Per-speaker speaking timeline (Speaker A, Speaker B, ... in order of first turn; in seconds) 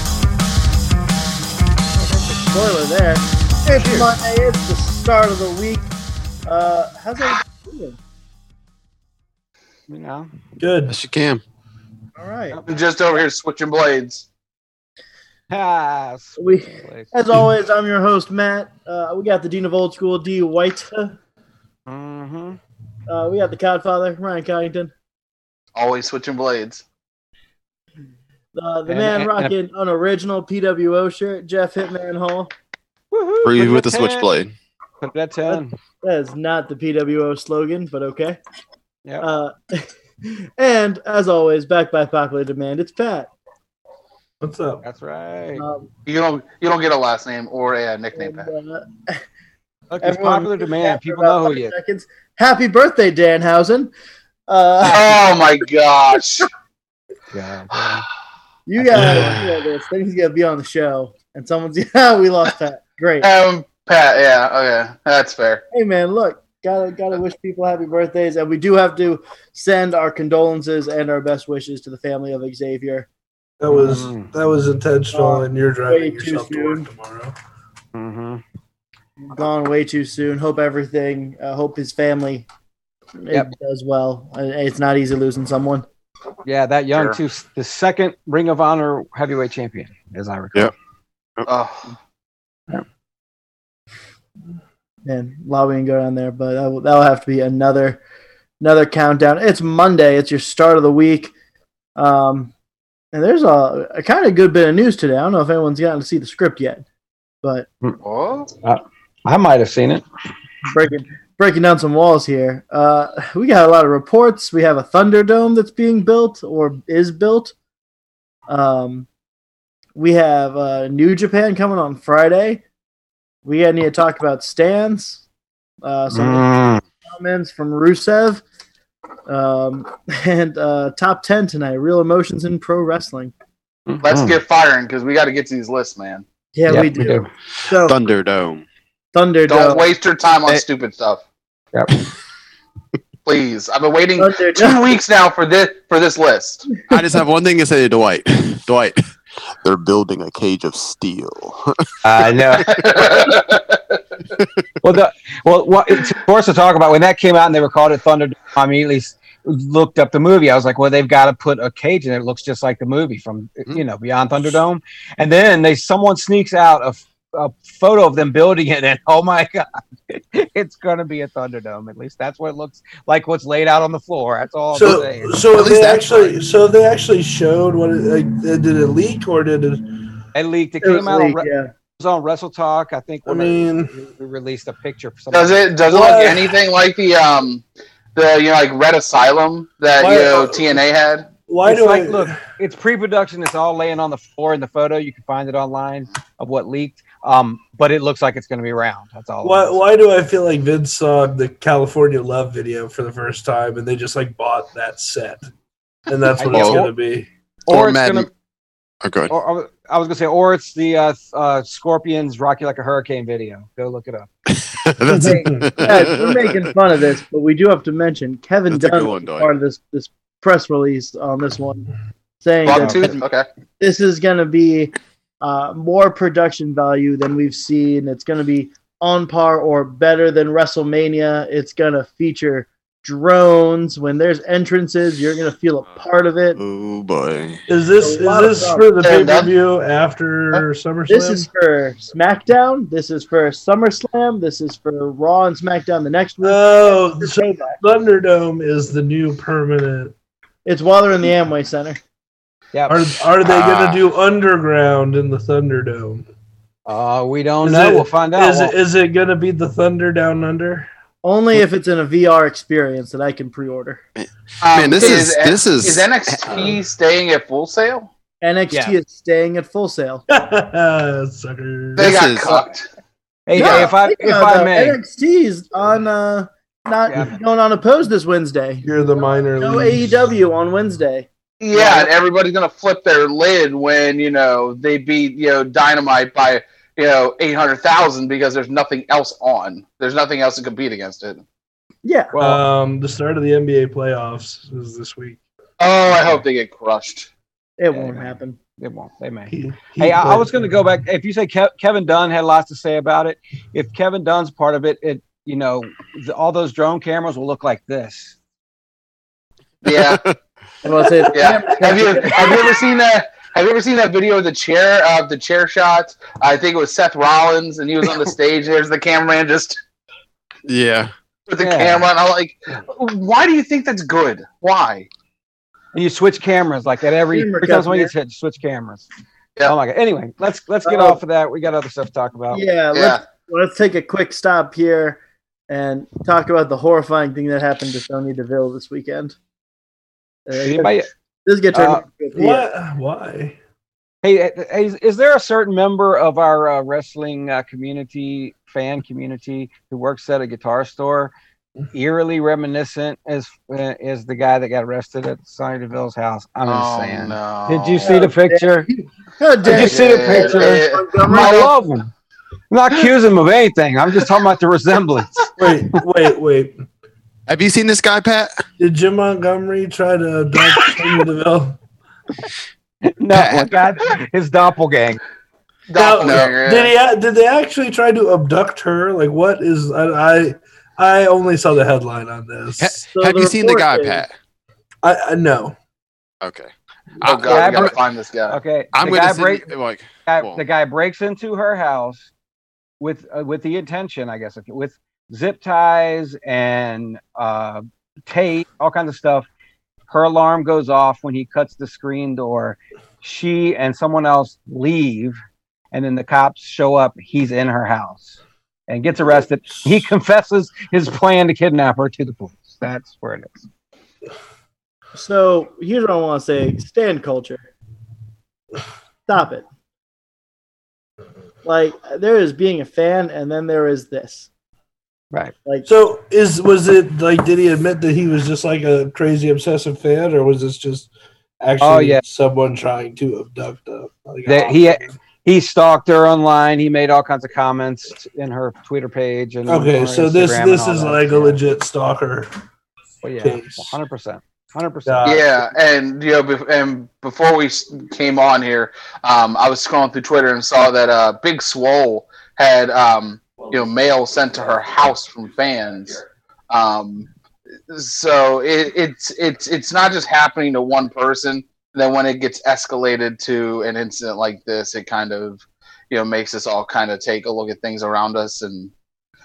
Speaker A: 2.0-5.9, 6.5-8.0, 12.2-12.6, 16.4-21.2, 23.1-24.9, 28.5-32.5, 35.5-38.4, 39.2-43.3, 45.6-45.9, 48.2-49.2, 50.0-53.9, 54.5-55.1, 58.7-63.3, 65.7-73.1, 75.1-76.9, 79.3-82.5, 83.2-85.8, 95.0-98.0, 98.6-101.3, 102.0-102.5, 103.1-106.8, 110.7-117.5, 118.5-119.1, 120.0-122.6, 123.5-125.2, 125.8-126.5, 127.1-128.4, 129.3-133.3, 136.6-137.9, 139.1-139.8, 144.2-145.0, 180.8-181.7, 215.2-221.9, 222.4-223.2, 223.8-236.6, 238.0-238.9, 241.1-247.8, 250.7-252.0, 261.2-264.0, 268.4-270.2, 273.6-278.9, 279.6-282.1, 292.0-292.3, 297.8-298.6, 310.8-312.8, 327.3-328.1, 330.9-331.2, 332.5-339.4, 340.5-342.7, 358.0-361.7, 383.1-384.2, 415.1-417.7, 419.3-419.7, 421.6-424.5
Speaker B: 9.9-10.3, 15.5-17.1, 21.9-22.6, 28.9-29.5, 33.1-34.3, 35.0-35.8, 44.8-45.6, 49.9-51.8, 57.3-58.1, 58.8-59.4, 73.7-74.3, 77.9-78.4, 86.5-90.7, 108.6-110.0, 126.1-126.8, 133.9-134.4, 136.7-137.3, 152.0-153.0, 154.8-175.4, 180.3-185.7, 191.7-199.8, 206.4-206.9, 207.7-208.3, 209.3-214.3, 222.8-223.1, 252.7-253.1, 256.9-258.7, 268.7-269.0, 273.5-275.0, 277.1-277.4, 292.3-292.6, 297.9-308.4, 321.6-322.1, 325.9-329.1, 329.6-332.6, 340.5-341.1, 341.7-342.0, 344.2-351.3, 351.9-358.9, 359.6-362.1, 362.7-365.4, 373.1-375.2, 387.2-388.0, 388.5-389.7, 390.3-392.3, 393.0-399.5, 400.1-405.4, 405.9-408.4, 408.9-413.7, 431.8-432.2, 434.5-441.6, 443.2-445.4
Speaker C: 10.6-11.0, 44.4-44.9, 73.6-77.3, 174.7-179.8, 183.3-183.9, 185.9-186.5, 190.0-190.7, 191.5-192.4, 199.4-205.5, 206.1-207.3, 215.1-215.7, 237.7-241.5, 246.4-250.1, 252.9-256.3, 257.6-260.9, 270.3-272.1, 278.8-280.1, 292.4-295.4, 299.5-300.7, 342.4-343.6, 365.6-366.7, 368.8-371.8, 375.9-382.9, 385.0-385.8, 409.7-410.0, 425.9-431.1, 431.6-435.2, 439.7-442.5, 443.4-444.0, 445.1-445.4
Speaker D: 10.9-11.4, 33.4-34.5, 137.8-138.6, 146.9-149.0, 149.6-151.9, 175.5-176.3, 206.5-206.8, 207.7-208.3, 209.0-209.3, 214.6-216.7, 218.7-219.5, 236.6-237.6, 264.2-266.5, 272.0-272.5, 309.9-310.4, 320.7-321.1, 367.5-368.6, 373.3-373.7, 382.8-384.3, 386.4-386.7, 387.2-388.0, 388.9-390.6
Speaker E: 12.7-14.3, 25.8-26.8, 46.1-48.5, 54.9-56.5, 63.2-65.6, 91.5-91.9, 108.0-108.5, 134.0-136.2, 139.5-141.2, 143.3-146.7, 152.6-154.0, 185.3-187.6, 188.2-191.3, 222.7-223.5, 239.0-239.6, 264.6-268.1, 272.0-272.9, 281.6-291.4, 295.8-297.3, 309.9-310.2, 311.3-319.8, 321.5-325.1, 332.9-333.2, 356.6-358.2, 359.7-361.8, 375.9-376.9, 387.2-388.6, 445.2-457.3, 457.9-468.9